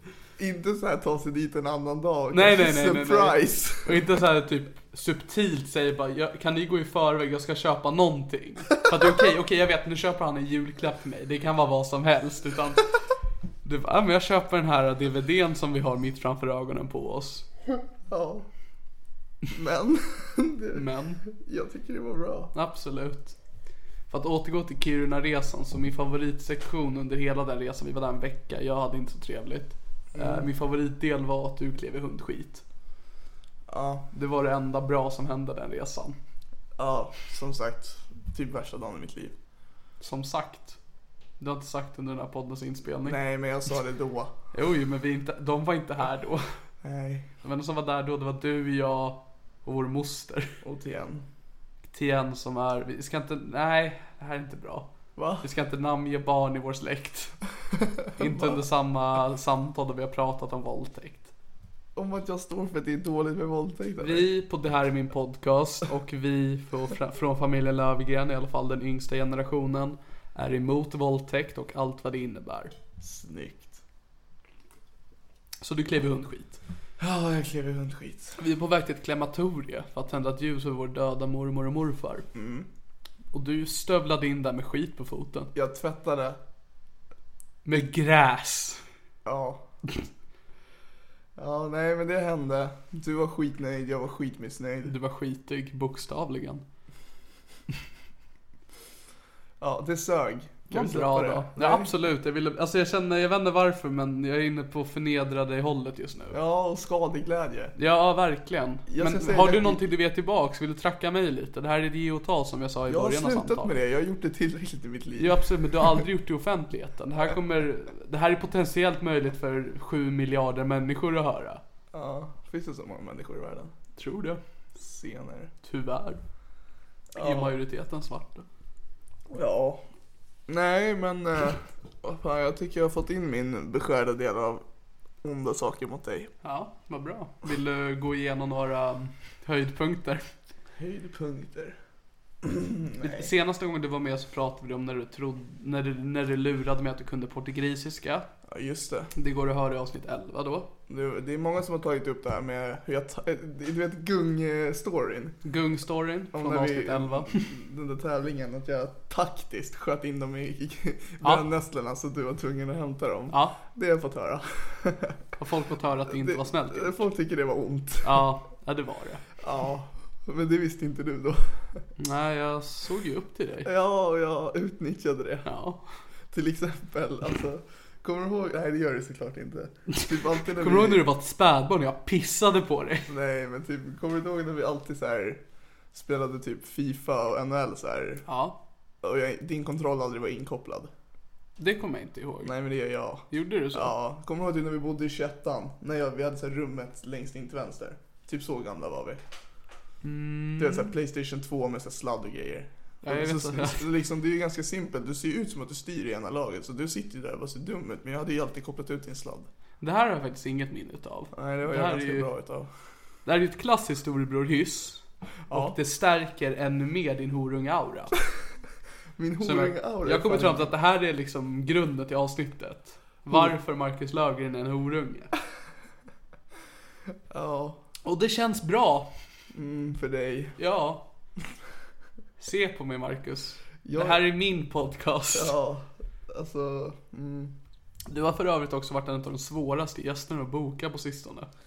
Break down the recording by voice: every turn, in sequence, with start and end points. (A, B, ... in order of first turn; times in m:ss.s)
0:00.4-0:04.0 A
0:02.3-0:12.9 B
0:13.6-0:17.4 B
0:18.1-0:18.5 A
0:19.5-0:22.5 A
0:20.7-0:21.2 B
0:22.5-0:23.3 B
0:24.1-0:32.6 B
0:30.1-0:30.5 A
0:33.7-0:34.0 A
0:34.1-0:36.2 B
0:36.8-0:39.3 A
0:40.0-0:40.8 B
0:41.4-0:43.2 B
0:43.0-0:44.3 A
0:44.5-0:46.6 B
0:46.8-0:47.3 A
0:47.4-0:50.6 B
0:50.6-0:51.2 A
0:51.9-0:54.9 B
0:55.2-0:55.4 A
0:55.4-0:57.4 B
0:58.2-1:01.3 B
0:58.2-0:58.6 A
1:01.9-1:04.3 A
1:04.0-1:12.7 B
1:13.0-1:13.8 A
1:15.6-1:16.6 B
1:17.0-1:18.4 A
1:18.4-1:22.3 B
1:22.3-1:22.7 A
1:23.3-1:25.5 B
1:25.5-1:26.4 A
1:27.6-1:28.8 B
1:29.2-1:29.6 A
1:31.4-1:34.9 A
1:34.8-1:36.6 B
1:39.6-1:41.9 A
1:40.7-1:46.4 B
1:46.3-1:47.7 A
1:47.8-1:53.8 B
1:48.9-1:49.8 A
1:52.9-1:55.9 A
1:55.2-2:01.6 B
2:01.9-2:03.7 A
2:04.0-2:04.4 B
2:04.8-2:05.5 A
2:05.6-2:06.2 B
2:07.1-2:07.5 A
2:07.2-2:08.4 B
2:09.3-2:09.8 A
2:10.5-2:14.6 A
2:15.2-2:16.3 A
2:16.4-2:20.2 B
2:20.8-2:21.8 A
2:22.4-2:23.3 A
2:23.0-2:28.3 B
2:28.5-2:29.1 A
2:29.1-2:30.7 B
2:30.9-2:35.4 A
2:35.4-2:37.5 B
2:36.3-2:45.2 A
2:41.2-2:41.5 B
2:43.3-2:43.6 B
2:45.4-2:47.0 B
2:46.1-2:48.2 A
2:48.0-2:49.2 B
2:49.4-2:51.8 A
2:52.0-2:53.7 B
2:53.6-2:55.5 A
2:55.4-2:55.8 B
2:56.3-3:01.0 A
3:00.6-3:03.1 B
3:03.1-3:05.4 A
3:05.9-3:08.2 A
3:08.2-3:08.6 B
3:09.0-3:10.9 A
3:11.6-3:12.5 B
3:12.4-3:19.2 A
3:13.3-3:13.9 B
3:20.0-3:20.9 B
3:20.6-3:29.5 A
3:23.0-3:23.8 B
3:29.8-3:32.3 B
3:31.3-3:32.7 A
3:33.2-3:38.1 B
3:35.5-3:35.8 A
3:39.2-3:40.7 A
3:39.4-3:45.3 B
3:47.3-3:47.8 A
3:48.0-3:49.1 B
3:49.5-3:50.6 A
3:50.6-3:51.0 B
3:52.4-3:55.5 B
3:53.8-3:54.3 A
3:55.3-3:57.5 A
3:58.1-4:01.5 B